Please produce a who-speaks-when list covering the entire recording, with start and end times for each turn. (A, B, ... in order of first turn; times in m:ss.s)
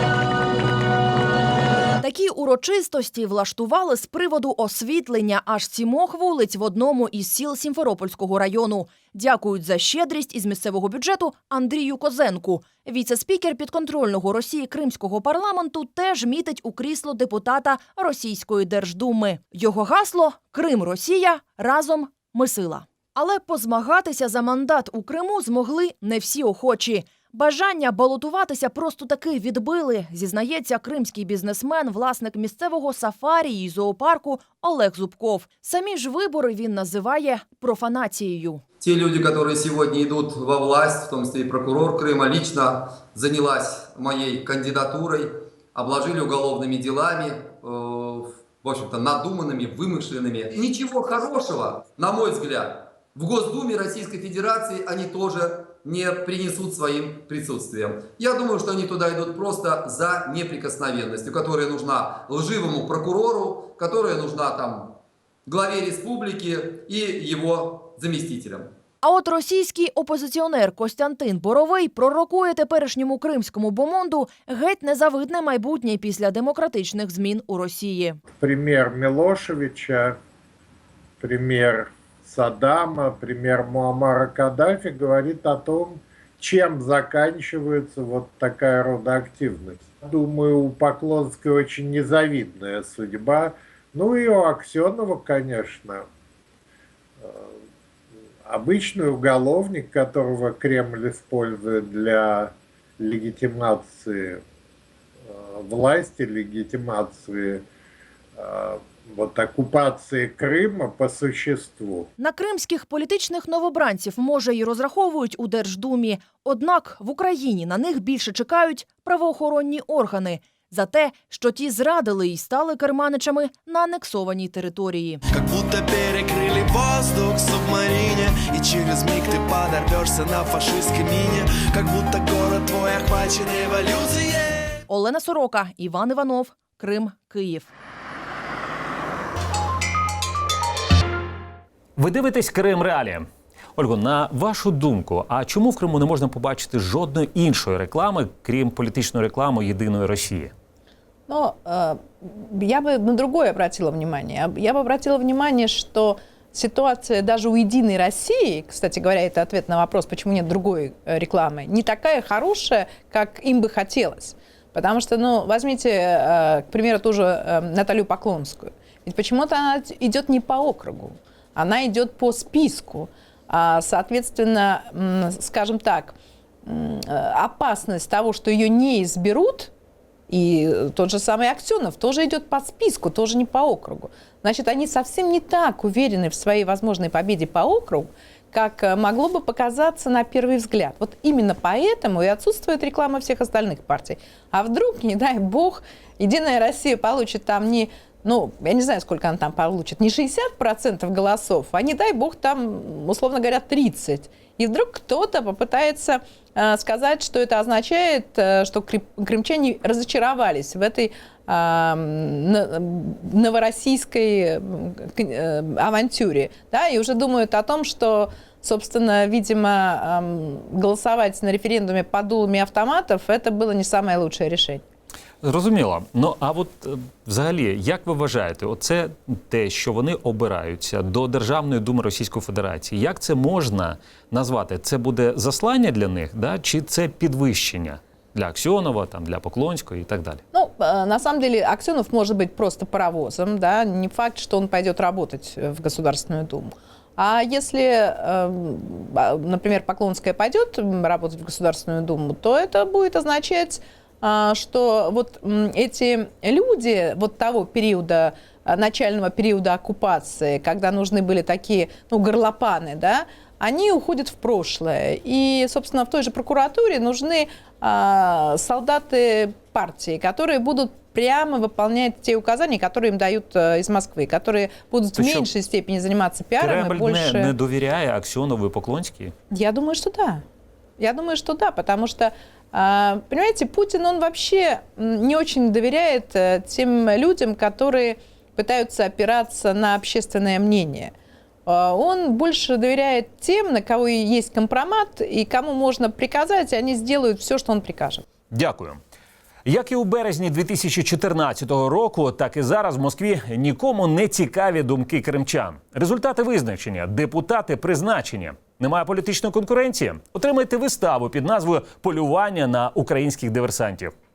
0:02.0-0:38.6 A
0:38.8-1:08.7 B
1:09.0-1:18.2 A
1:18.4-1:20.2 C
1:21.2-1:36.1 C
1:37.2-1:37.6 C
1:38.4-1:44.4 C
1:45.2-1:47.6 C
1:48.4-1:52.1 C
1:52.2-2:05.2 A
2:05.3-2:14.7 D
2:14.9-2:17.7 A
2:22.0-2:30.5 E
2:31.3-2:59.7 F
3:00.3-3:44.8 F
3:45.4-4:00.4 E
4:00.5-4:37.5 F
4:35.2-4:35.5 E
4:36.6-4:39.3 E
4:39.5-4:40.4 F
4:41.0-4:51.1 F
4:51.7-4:58.2 F
4:58.5-4:59.0 E
4:59.7-5:14.1 E